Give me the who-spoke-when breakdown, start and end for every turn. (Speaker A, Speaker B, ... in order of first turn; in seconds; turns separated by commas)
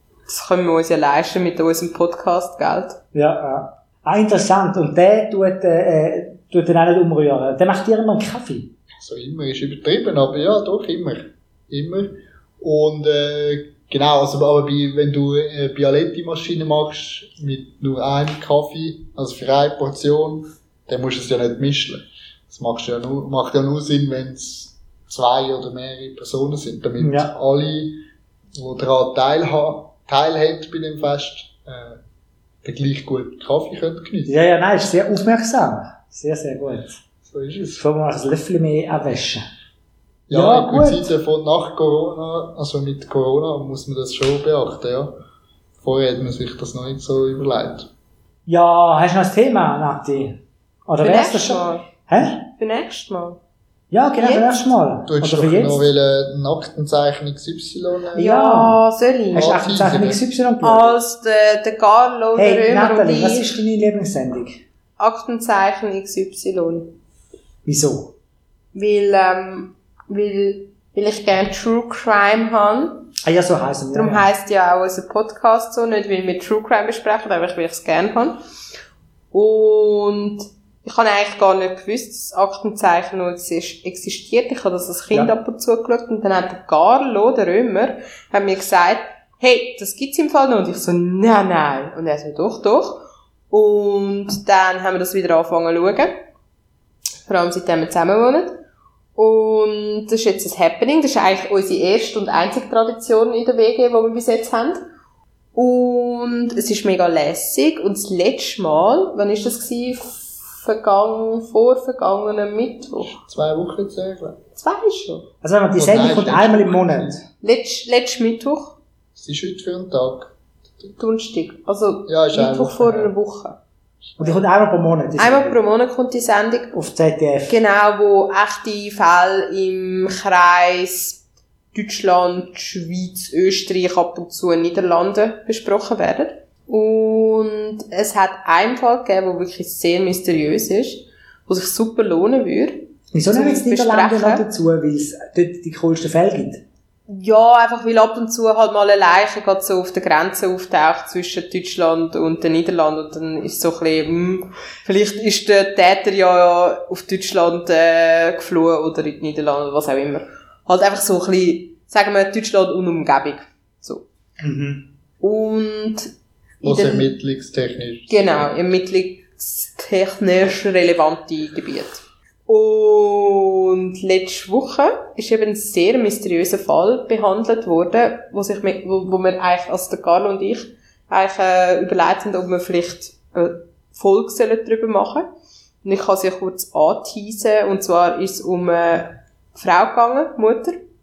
Speaker A: 0.3-3.0, Speaker B: 3.1-8.7, Speaker C: 9.0-28.0, Speaker B: 27.0-27.3, Speaker C: 28.6-32.0, Speaker C: 32.6-34.3, Speaker B: 34.3-37.0, Speaker C: 37.2-37.8, Speaker B: 37.8-39.4, Speaker C: 40.3-45.1, Speaker B: 40.3-41.1, Speaker C: 45.8-47.9, Speaker B: 48.5-52.5, Speaker A: 51.0-51.9, Speaker A: 52.6-53.4, Speaker B: 53.9-55.9, Speaker A: 54.2-54.6, Speaker C: 55.0-58.1, Speaker A: 58.1-59.5, Speaker B: 58.1-58.8, Speaker C: 59.3-60.2, Speaker B: 59.3-61.0, Speaker A: 60.6-63.5, Speaker B: 62.4-64.6, Speaker A: 65.0-66.9, Speaker B: 67.6-68.1, Speaker A: 68.7-73.1, Speaker B: 73.2-74.3, Speaker A: 73.9-78.4, Speaker A: 79.3-96.2, Speaker A: 97.2-98.6, Speaker A: 99.2-104.8, Speaker A: 105.5-113.1, Speaker C: 113.0-114.4, Speaker A: 114.5-115.2, Speaker B: 115.4-117.2, Speaker C: 115.8-117.2, Speaker A: 117.4-118.8, Speaker C: 119.2-120.9, Speaker A: 121.0-123.6, Speaker C: 122.1-123.1, Speaker C: 124.1-124.4, Speaker B: 124.2-125.6, Speaker A: 125.2-126.7, Speaker B: 126.7-127.6, Speaker A: 127.5-131.2, Speaker A: 131.7-144.4, Speaker B: 143.1-146.6, Speaker A: 147.1-164.0, Speaker B: 164.4-164.8, Speaker A: 165.2-167.1, Speaker C: 166.6-168.5, Speaker A: 168.1-185.3, Speaker A: 185.8-190.8